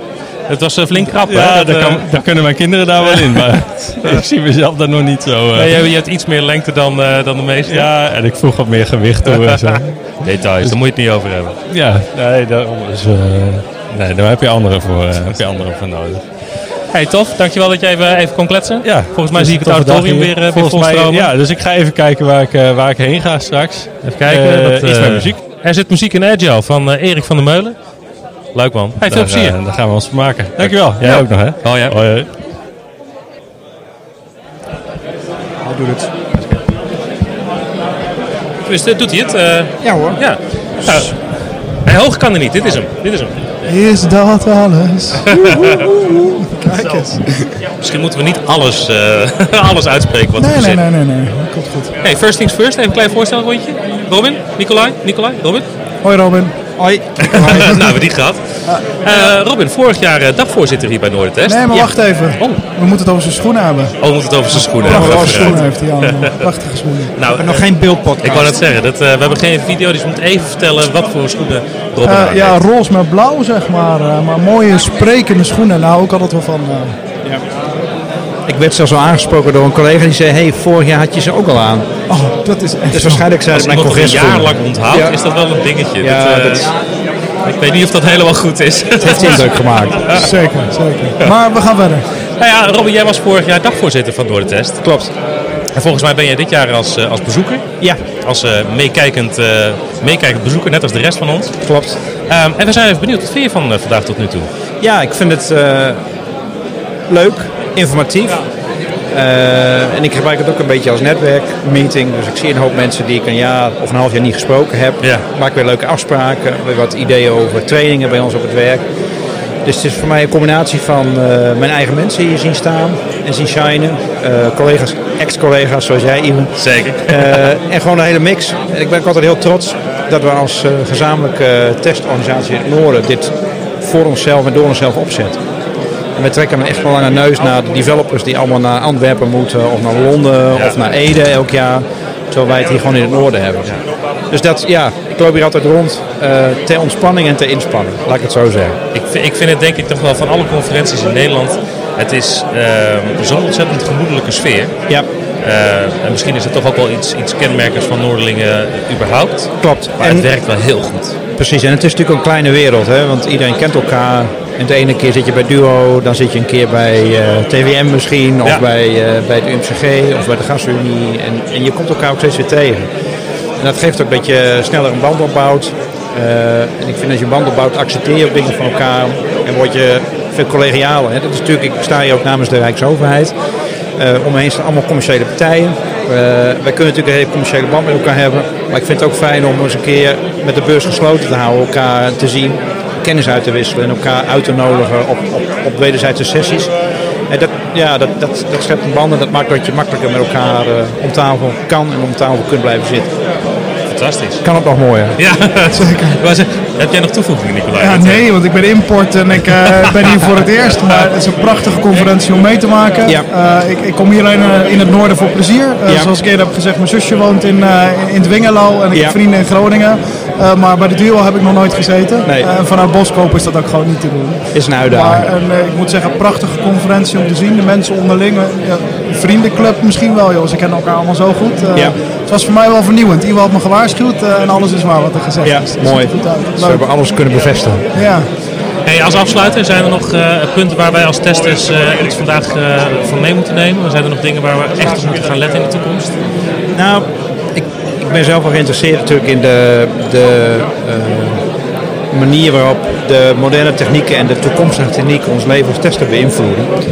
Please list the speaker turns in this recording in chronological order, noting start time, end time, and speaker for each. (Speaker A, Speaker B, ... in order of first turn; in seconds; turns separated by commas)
Speaker A: 0.5-2.1, Speaker B: 1.0-5.8, Speaker A: 3.0-4.2, Speaker A: 5.5-7.9, Speaker B: 7.7-10.1, Speaker A: 9.3-11.6, Speaker B: 11.7-16.2, Speaker A: 16.9-21.3, Speaker B: 18.8-25.4, Speaker A: 24.0-27.8, Speaker A: 28.5-29.6, Speaker B: 29.0-32.3, Speaker A: 30.6-32.0, Speaker C: 35.6-36.1, Speaker A: 38.6-41.2, Speaker C: 39.8-40.2, Speaker A: 41.8-43.3, Speaker D: 43.6-47.5, Speaker A: 45.3-45.8, Speaker C: 46.6-47.1, Speaker A: 47.8-50.8, Speaker D: 50.4-52.0, Speaker A: 52.0-55.7, Speaker D: 56.0-56.6, Speaker C: 56.8-58.0, Speaker A: 57.2-61.8, Speaker D: 61.5-64.0, Speaker A: 64.0-66.3, Speaker D: 64.5-67.1, Speaker C: 64.8-65.6, Speaker A: 67.2-67.7, Speaker C: 67.3-68.5, Speaker A: 68.2-72.6, Speaker D: 72.0-77.0, Speaker C: 78.5-81.9, Speaker D: 82.1-83.3, Speaker C: 82.9-85.2, Speaker A: 83.5-86.7, Speaker C: 86.0-86.7, Speaker A: 87.4-89.5, Speaker C: 89.0-90.2, Speaker D: 90.1-92.1, Speaker A: 92.4-94.8, Speaker C: 94.8-95.1, Speaker A: 95.7-97.7, Speaker A: 98.2-101.6, Speaker C: 101.6-102.0, Speaker A: 102.3-104.5, Speaker C: 104.8-106.0, Speaker C: 107.1-108.4, Speaker C: 109.1-118.8, Speaker C: 119.6-135.4, Speaker A: 126.6-127.5, Speaker C: 136.2-143.8, Speaker A: 140.5-140.8, Speaker C: 144.3-148.8, Speaker A: 148.9-154.7, Speaker A: 155.4-161.2, Speaker C: 159.6-160.3, Speaker C: 161.4-172.9, Speaker C: 173.6-183.3, Speaker C: 184.0-196.7, Speaker C: 197.3-203.1, Speaker A: 203.9-204.4, Speaker C: 204.4-205.2, Speaker A: 205.2-208.3, Speaker D: 205.7-206.2, Speaker D: 207.8-236.8, Speaker A: 209.6-210.0, Speaker C: 224.5-225.2, Speaker C: 235.4-237.9, Speaker D: 237.9-238.3, Speaker A: 238.9-246.2, Speaker C: 246.7-251.4, Speaker C: 252.1-256.7